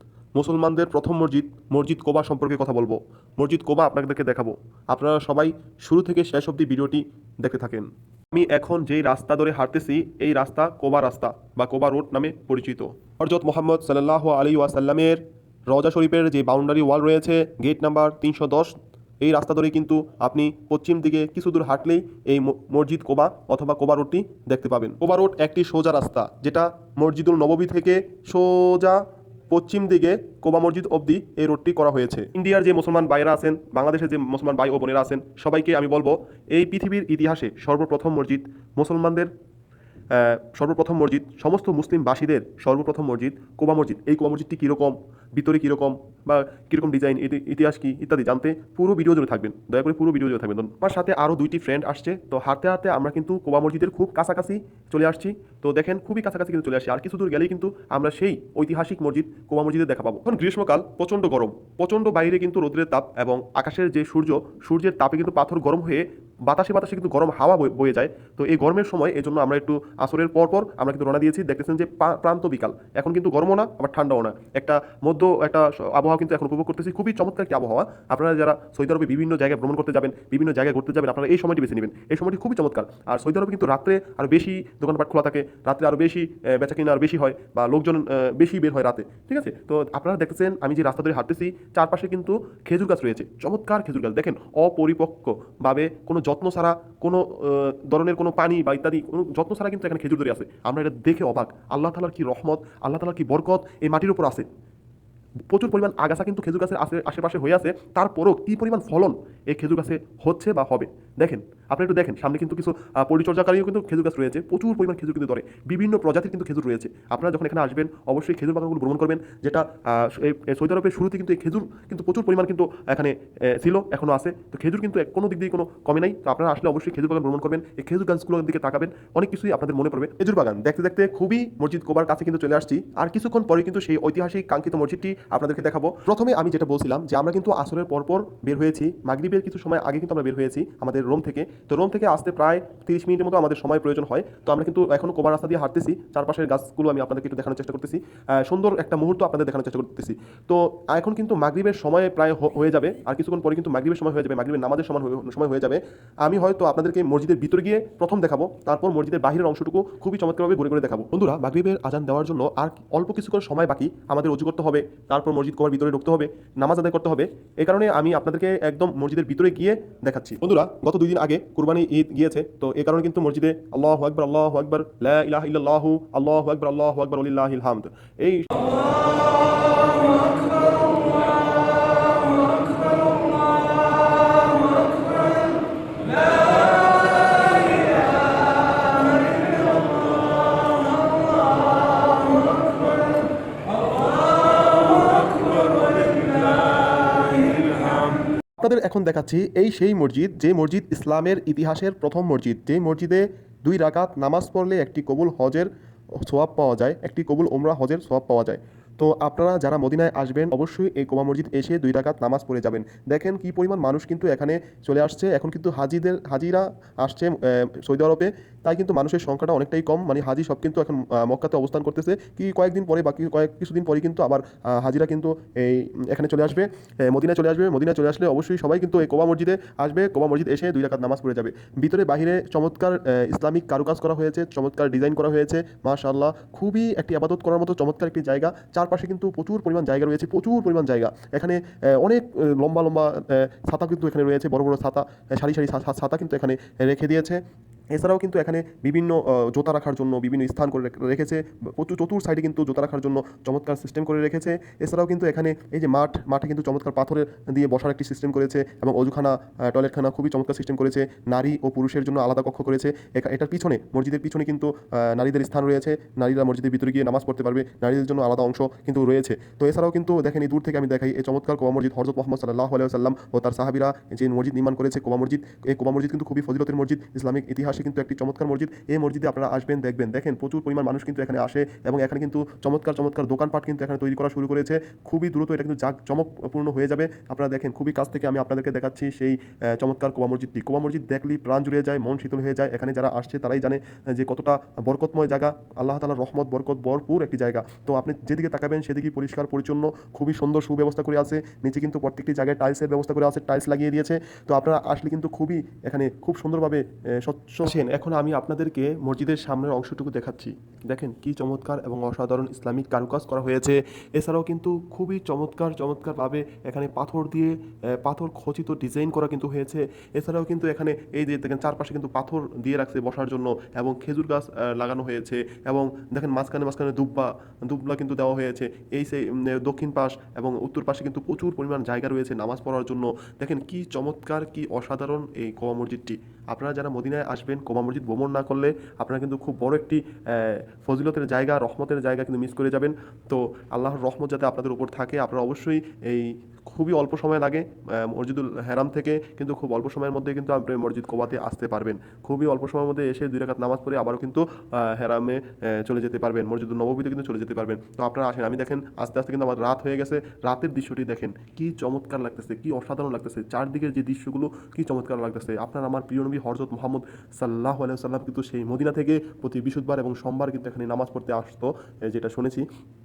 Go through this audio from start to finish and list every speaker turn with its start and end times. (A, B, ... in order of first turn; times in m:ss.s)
0:00.4-0:39.3 A
0:40.1-1:44.5 A
1:45.5-2:58.7 A
3:18.6-3:25.7 A
3:26.2-4:07.4 A
4:07.9-6:12.6 A